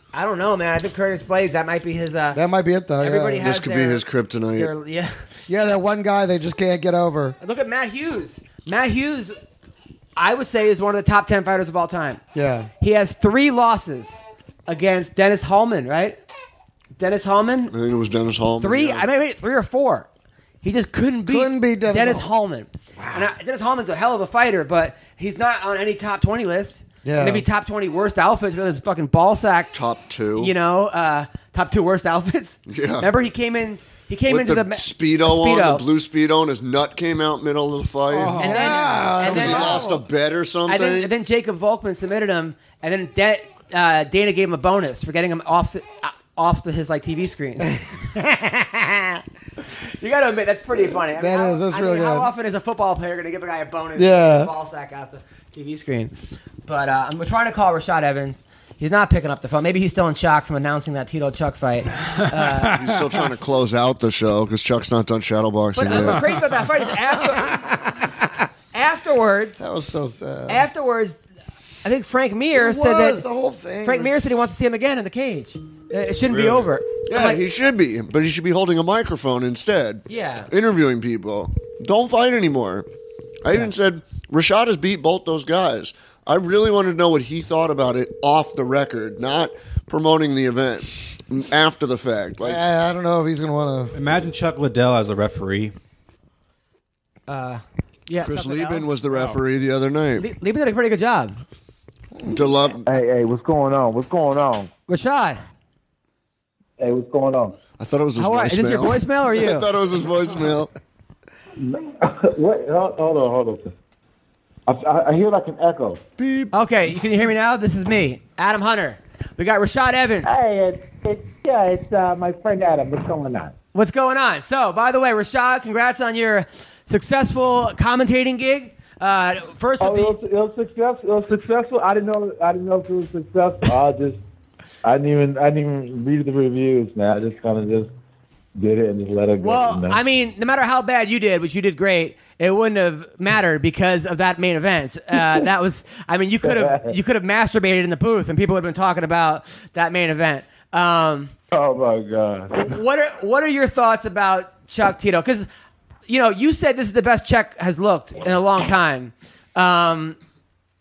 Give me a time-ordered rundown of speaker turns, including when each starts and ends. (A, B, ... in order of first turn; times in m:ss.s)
0:00.1-0:02.4 A
0:02.3-0:03.4 B
0:03.0-0:04.0 A
0:03.4-0:04.7 C
0:04.6-0:05.2 A
0:05.5-0:07.4 B
0:07.4-0:09.4 A
0:10.2-0:12.2 A
0:12.3-0:12.7 B
0:12.8-0:16.2 A
0:17.0-0:17.7 A
0:17.7-0:19.1 C
0:18.6-0:20.1 A
0:20.6-0:29.7 A
0:21.3-0:22.3 B
0:23.0-0:23.3 B
0:27.0-0:27.4 B
0:29.7-0:30.5 C
0:30.4-0:35.8 A
0:32.7-0:33.1 C
0:34.3-0:38.4 C
0:38.1-0:39.1 D
0:38.3-0:39.8 B
0:38.4-0:40.0 A
0:39.1-0:41.1 C
0:40.7-0:47.8 A
0:48.2-0:49.2 B
0:50.0-0:56.1 A
0:51.2-0:52.3 B
0:54.0-0:54.5 B
0:56.7-1:02.8 A
1:02.7-1:06.5 C
1:05.8-1:07.9 A
1:07.5-1:08.1 B
1:08.7-1:09.6 A
1:09.6-1:10.7 B
1:10.5-1:11.2 A
1:11.8-1:13.2 A
1:12.5-1:14.2 B
1:13.8-1:17.4 A
1:16.3-1:16.7 D
1:17.1-1:22.9 C
1:20.1-1:20.5 A
1:23.4-1:32.6 C
1:32.4-1:33.9 B
1:33.9-1:35.7 D
1:37.3-1:38.9 A
1:38.2-1:40.3 C
1:39.1-1:39.4 D
1:40.2-1:41.4 A
1:42.3-1:42.9 C
1:42.9-1:44.7 E
1:44.9-1:45.4 A
1:46.8-1:47.6 E
1:47.8-1:50.7 C
1:48.2-1:49.7 A
1:51.6-1:53.7 E
1:54.7-1:56.0 E
1:56.2-1:56.5 C
1:56.5-2:00.3 A
2:00.2-2:03.6 E
2:03.7-2:10.2 A
2:09.8-2:14.2 E
2:14.8-2:17.9 E
2:18.6-2:20.0 E
2:19.4-2:31.3 A
2:26.4-2:27.0 E
2:31.5-2:32.8 E
2:32.5-2:35.5 A
2:36.1-2:40.2 A